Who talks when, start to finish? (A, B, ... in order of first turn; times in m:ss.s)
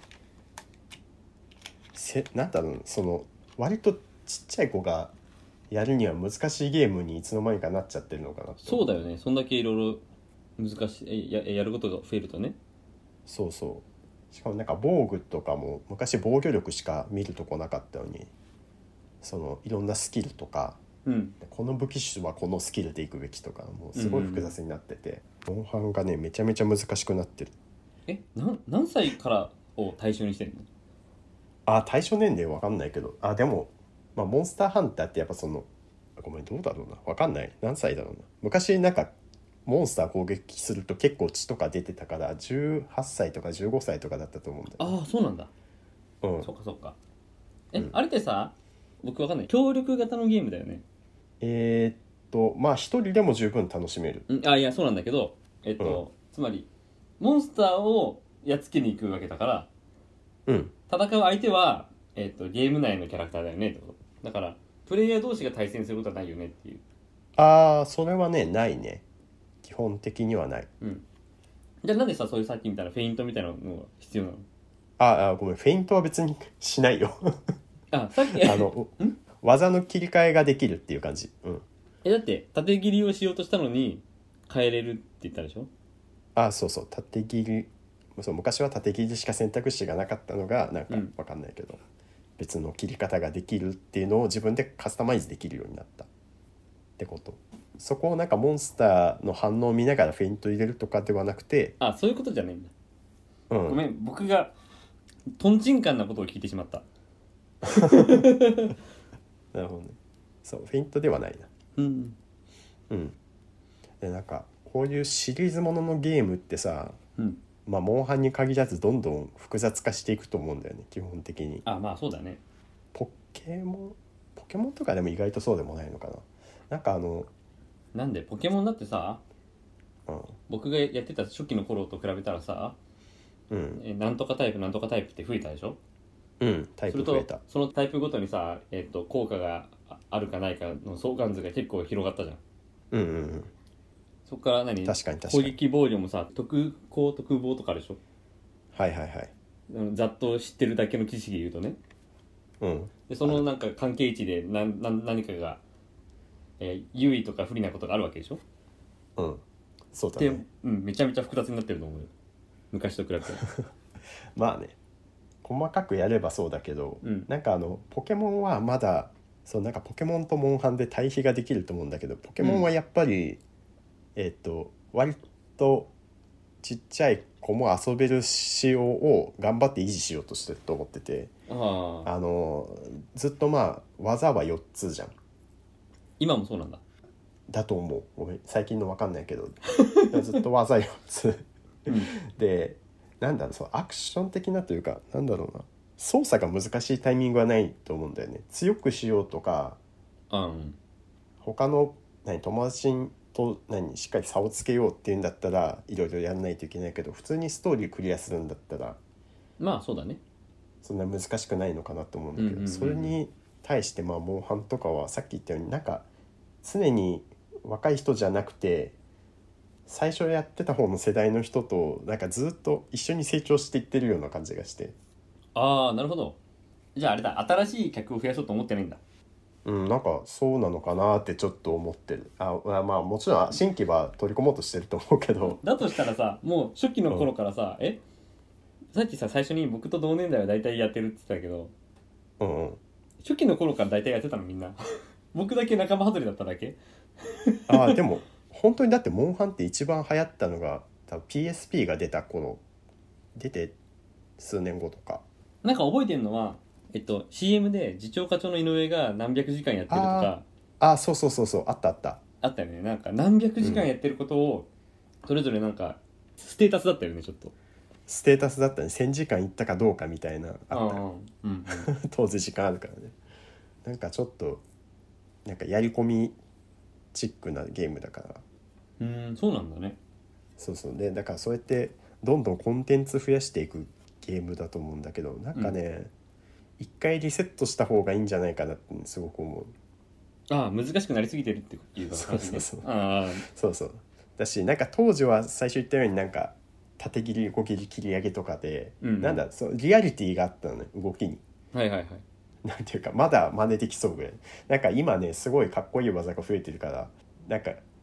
0:01.9-0:05.1 A
0:05.7-0:08.8 A
0:08.6-0:10.0 B
0:10.6-0:12.6 B
0:13.2-0:18.3 A
0:19.2-0:20.8 A
0:21.0-0:21.4 B
0:21.4-0:27.5 A
0:23.9-0:24.5 B
0:28.1-0:30.7 B
0:31.6-0:39.1 A
0:39.6-0:44.9 A
0:44.8-0:45.5 B
0:46.2-0:46.5 A
0:46.4-0:47.0 B
0:47.7-0:50.8 B
0:51.4-0:54.2 A
0:54.3-0:56.7 B
0:57.2-0:59.7 B
1:00.5-1:00.7 A
1:00.9-1:06.8 B
1:07.4-1:09.0 A
1:09.6-1:10.7 A
1:11.8-1:14.4 B
1:15.0-1:17.5 A
1:17.9-1:19.2 B
1:18.3-1:21.6 A
1:22.0-1:25.7 B
1:26.4-1:31.8 A
1:32.4-1:36.1 A
1:37.0-1:41.8 A
1:41.8-1:42.7 B
1:43.5-1:43.8 A
1:43.7-1:44.5 B
1:45.4-1:46.8 B
1:47.6-1:48.3 A
1:47.7-1:48.7 B
1:49.5-1:51.5 A
1:51.8-1:52.2 B
1:52.9-1:53.2 A
1:54.0-1:57.0 A
1:57.6-2:01.6 A
2:01.6-2:02.4 B
2:02.9-2:07.3 A
2:07.9-2:09.2 B
2:10.1-2:10.3 A
2:10.5-2:12.8 B
2:13.5-2:13.8 A
2:13.7-2:15.8 B
2:16.4-2:17.4 A
2:16.9-2:22.4 B
2:22.9-2:23.5 A
2:24.3-2:28.0 B
2:24.8-2:25.6 A
2:28.7-2:29.3 A
2:29.7-2:31.8 B
2:32.6-2:33.4 A
2:33.1-2:35.6 B
2:36.6-2:38.4 B
2:39.2-2:40.4 A
2:40.2-2:42.1 B
2:42.7-2:43.5 B
2:44.3-2:44.8 A
2:45.4-2:53.4 A
2:47.0-2:47.3 B
2:52.4-2:52.7 B
2:54.2-2:55.9 A
2:56.6-3:01.3 A
3:01.5-3:02.1 B
3:02.0-3:05.1 A
3:06.2-3:06.8 B
3:07.5-3:19.8 A
3:09.8-3:10.1 B
3:11.9-3:12.1 B
3:20.3-3:20.8 B
3:21.4-3:29.0 A
3:29.6-3:30.2 B
3:30.8-3:36.0 A
3:32.4-3:33.2 B
3:36.6-3:39.0 A
3:39.9-3:44.9 A
3:45.5-3:46.4 B
3:46.9-3:49.0 B
3:49.6-3:55.6 A
3:55.5-3:58.0 B
3:58.9-4:01.7 B
4:02.4-4:02.8 A
4:03.2-4:04.8 B
4:05.3-4:08.0 B
4:07.7-4:12.6 A
4:13.3-4:13.8 A
4:14.4-4:15.2 A
4:15.6-4:20.4 B
4:19.9-4:22.2 A
4:22.4-4:24.7 B
4:23.6-4:23.9 A
4:25.2-4:27.5 B
4:28.1-4:31.0 A
4:30.7-4:31.9 B
4:31.7-4:33.1 A
4:33.8-4:34.6 A
4:35.4-4:36.4 A
4:37.1-4:38.4 A
4:39.0-4:40.0 B
4:40.6-4:46.1 A
4:46.8-4:49.7 A
4:50.5-4:53.4 B
4:52.1-4:52.9 A
4:53.4-5:01.4 A
4:59.0-4:59.4 B
5:01.7-5:02.2 B
5:02.6-5:07.8 A